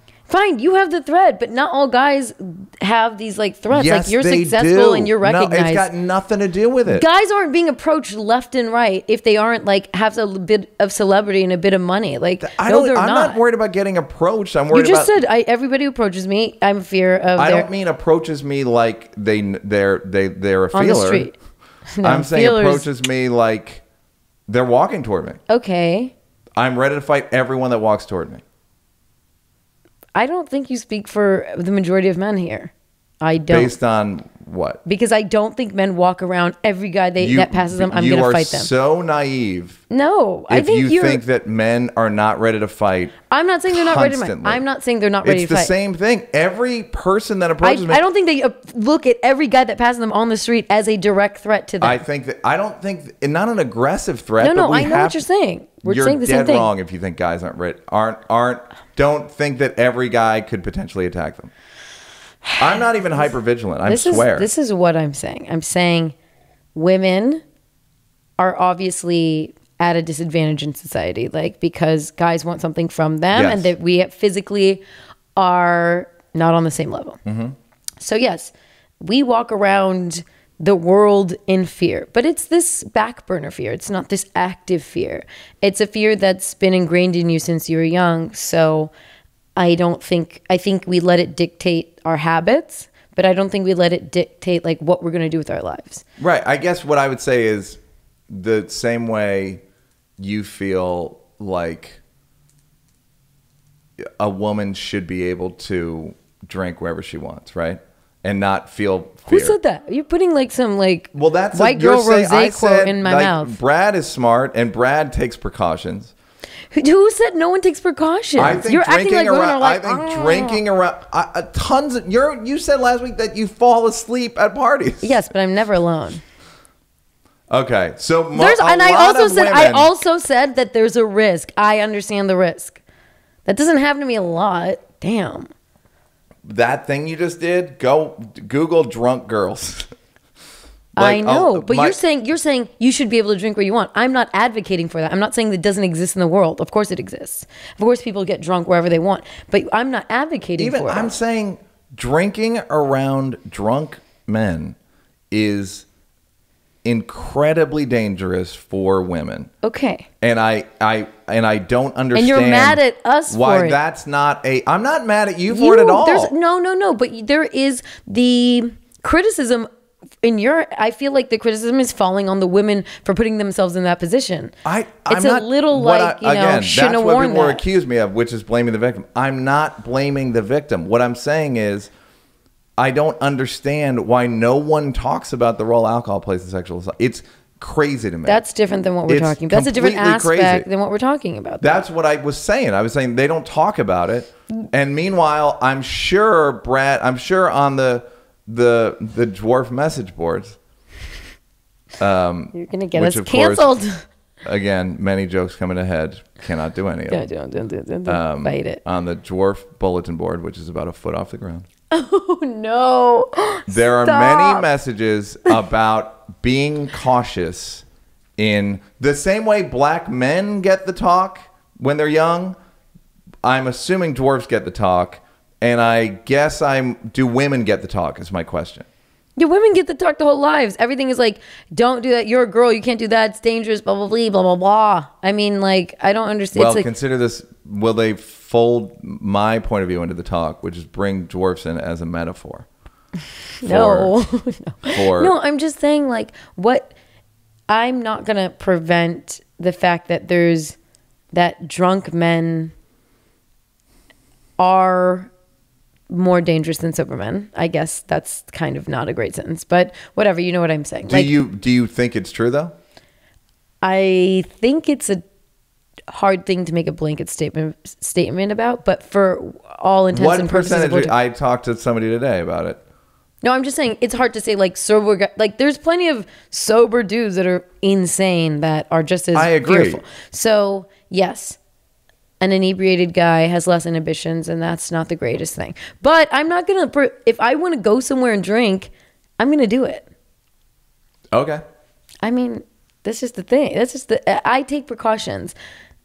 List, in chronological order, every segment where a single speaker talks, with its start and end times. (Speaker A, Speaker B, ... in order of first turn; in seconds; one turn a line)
Speaker A: 0.3-5.9
Speaker B: 3.7-7.0
Speaker A: 6.8-13.4
Speaker B: 12.4-15.1
Speaker A: 14.7-17.7
Speaker B: 17.4-21.3
Speaker A: 20.7-21.4
Speaker A: 21.9-22.9
Speaker B: 22.0-23.8
Speaker B: 24.5-25.4
Speaker A: 25.5-26.1
Speaker B: 26.6-28.4
Speaker A: 30.1-33.8
Speaker B: 33.5-34.8
Speaker A: 34.8-38.7
Speaker B: 37.2-39.8
Speaker A: 39.9-41.2
Speaker B: 40.5-43.1
Speaker A: 43.3-45.7
Speaker B: 43.7-44.6
Speaker B: 45.2-48.0
Speaker A: 47.6-52.0
Speaker B: 51.8-55.2
Speaker A: 54.4-56.7
Speaker B: 55.8-61.5
Speaker A: 62.5-62.8
Speaker B: 62.6-64.5
Speaker A: 63.9-66.1
Speaker A: 66.7-67.4
Speaker A: 68.4-74.8
Speaker B: 73.3-73.7
Speaker A: 75.3-77.2
Speaker B: 77.2-77.5
Speaker A: 78.0-88.9
Speaker A: 89.5-96.0
Speaker B: 96.2-97.8
Speaker B: 98.3-99.6
Speaker B: 100.2-102.0
Speaker B: 104.2-109.6
Speaker A: 109.3-113.6
Speaker B: 111.1-116.1
Speaker A: 116.7-120.6
Speaker B: 118.3-125.2
Speaker A: 125.0-126.2
Speaker B: 127.5-129.9
Speaker A: 128.3-132.8
Speaker A: 133.4-135.5
Speaker B: 136.4-139.9
Speaker B: 140.9-142.0
Speaker A: 140.9-151.1
Speaker B: 150.6-154.8
Speaker B: 155.3-155.8
Speaker B: 156.8-159.5
Speaker A: 159.6-160.1
Speaker B: 160.2-166.3
Speaker A: 162.1-163.8
Speaker A: 165.5-169.7
Speaker A: 170.2-174.5
Speaker B: 174.6-181.9
Speaker A: 175.1-177.6
Speaker B: 182.8-188.4
Speaker A: 188.2-191.8
Speaker B: 189.1-190.7
Speaker B: 191.6-200.6
Speaker B: 202.0-203.8
Speaker A: 202.5-204.0
Speaker B: 204.4-207.3
Speaker A: 207.1-208.8
Speaker B: 208.1-211.7
Speaker A: 211.9-214.7
Speaker B: 213.7-217.8
Speaker B: 218.4-222.6
Speaker B: 223.4-228.9
Speaker A: 229.3-236.9
Speaker B: 236.5-242.7
Speaker A: 243.6-246.9
Speaker B: 243.6-244.2
Speaker B: 244.9-245.3
Speaker A: 247.7-250.8
Speaker A: 251.3-252.7
Speaker A: 254.6-255.3
Speaker A: 256.1-261.4
Speaker B: 261.1-262.7
Speaker A: 263.8-265.2
Speaker A: 266.1-271.1
Speaker B: 270.1-272.8
Speaker A: 273.4-281.6
Speaker B: 279.3-280.0
Speaker A: 282.4-290.1
Speaker B: 291.3-291.6
Speaker A: 292.2-295.6